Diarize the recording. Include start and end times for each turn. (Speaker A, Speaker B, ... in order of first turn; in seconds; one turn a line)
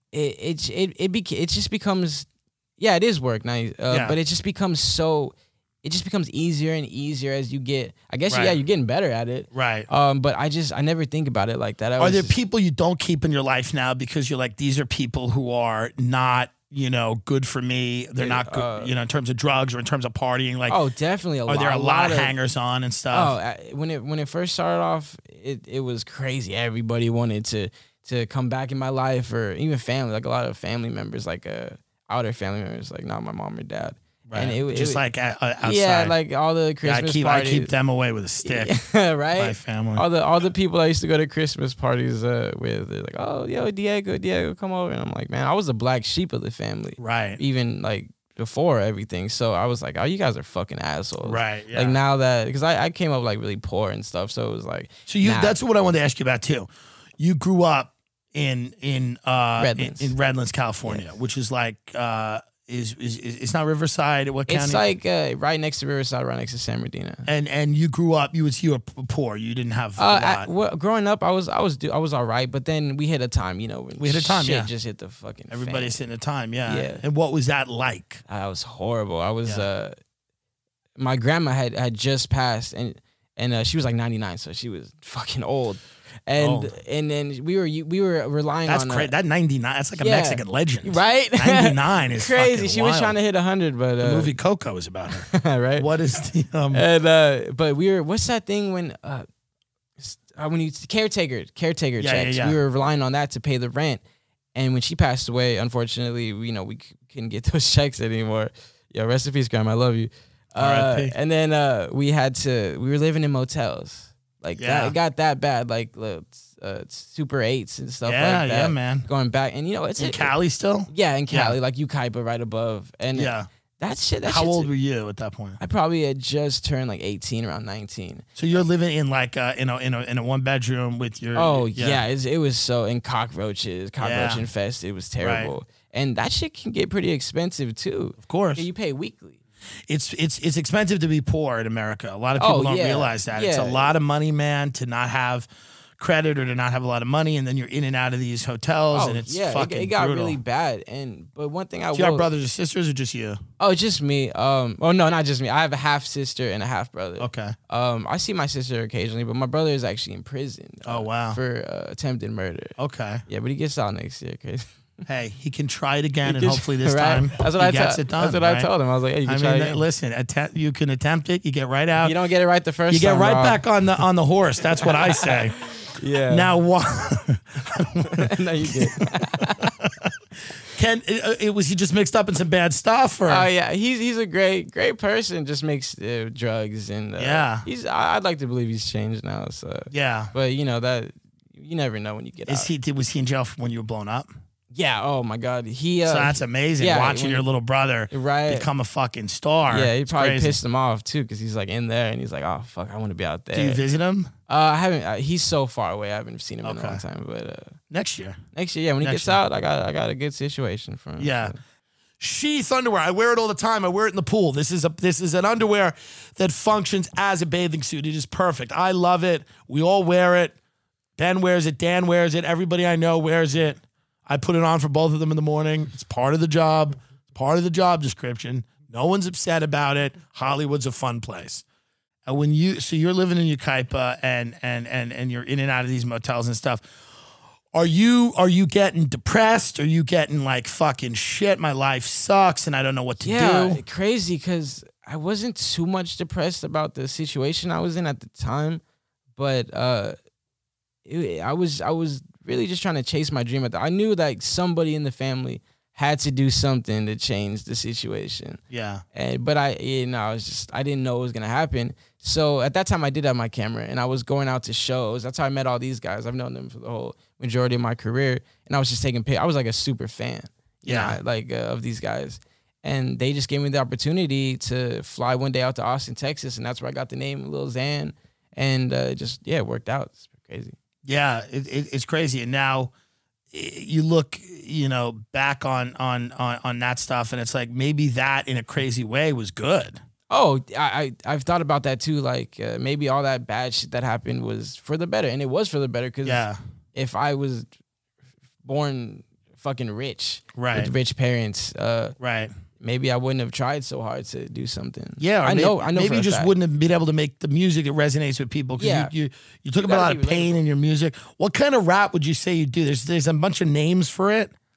Speaker A: 0.1-12.3
Speaker B: 3.9-4.2
Speaker B: 8.3-8.6
Speaker B: 9.5-9.9
Speaker B: 12.0-20.8
Speaker A: 18.2-18.9
Speaker A: 20.7-22.3
Speaker B: 21.5-23.4
Speaker A: 23.1-35.0
Speaker B: 34.3-36.1
Speaker A: 35.6-37.7
Speaker B: 36.8-38.8
Speaker A: 38.4-55.5
Speaker B: 39.4-40.0
Speaker B: 47.0-47.4
Speaker B: 51.2-52.0
Speaker B: 55.1-64.8
Speaker A: 59.6-60.1
Speaker A: 64.5-67.3
Speaker B: 67.3-70.5
Speaker A: 70.0-76.0
Speaker B: 74.0-74.7
Speaker B: 75.5-78.2
Speaker A: 76.7-77.0
Speaker A: 78.3-80.0
Speaker A: 81.0-89.1
Speaker B: 86.4-86.7
Speaker B: 88.7-93.2
Speaker A: 90.0-94.3
Speaker B: 94.0-96.8
Speaker A: 95.1-95.9
Speaker A: 96.7-99.3
Speaker A: 100.0-104.0
Speaker B: 102.0-102.6
Speaker A: 104.5-120.3
Speaker B: 110.6-111.1
Speaker B: 114.6-115.0
Speaker B: 118.0-119.1
Speaker B: 120.0-121.6
Speaker A: 120.9-124.7
Speaker B: 123.1-123.5
Speaker B: 124.2-125.6
Speaker A: 125.6-128.3
Speaker B: 128.4-132.0
Speaker A: 131.3-139.4
Speaker B: 134.0-134.4
Speaker B: 135.2-135.5
Speaker B: 138.2-138.7
Speaker B: 139.9-145.5
Speaker A: 142.4-143.9
Speaker B: 146.0-150.4
Speaker A: 148.9-152.3
Speaker B: 151.9-153.4
Speaker A: 153.6-162.8
Speaker B: 157.2-157.6
Speaker B: 160.8-161.4
Speaker B: 162.8-163.2
Speaker A: 163.3-164.7
Speaker B: 165.1-168.7
Speaker A: 166.2-169.8
Speaker B: 169.3-172.2
Speaker A: 172.0-173.6
Speaker B: 172.9-175.6
Speaker A: 174.8-176.5
Speaker B: 176.3-180.1
Speaker A: 178.1-179.8
Speaker B: 180.7-183.5
Speaker A: 183.3-192.7
Speaker B: 187.2-187.7
Speaker B: 189.9-190.3
Speaker B: 192.5-194.3
Speaker A: 194.7-197.4
Speaker B: 196.1-200.6
Speaker A: 198.1-198.7
Speaker A: 199.7-203.8
Speaker B: 203.5-204.3
Speaker A: 204.5-207.8
Speaker B: 206.6-207.0
Speaker B: 207.9-208.4
Speaker A: 208.6-211.6
Speaker B: 209.0-209.4
Speaker B: 211.2-211.6
Speaker B: 212.2-220.6
Speaker B: 221.2-231.6
Speaker B: 232.3-236.8
Speaker B: 237.7-243.8
Speaker A: 243.2-248.8
Speaker A: 249.4-250.2
Speaker A: 251.1-258.6
Speaker B: 258.7-259.0
Speaker A: 259.1-280.8
Speaker B: 270.9-271.2
Speaker B: 281.1-282.9
Speaker B: 283.5-290.0
Speaker A: 290.3-297.7
Speaker B: 296.2-296.6
Speaker A: 298.6-302.2
Speaker B: 300.6-300.9
Speaker B: 302.2-302.5
Speaker A: 302.8-306.5
Speaker B: 305.2-314.5
Speaker A: 308.8-309.1
Speaker A: 309.8-310.6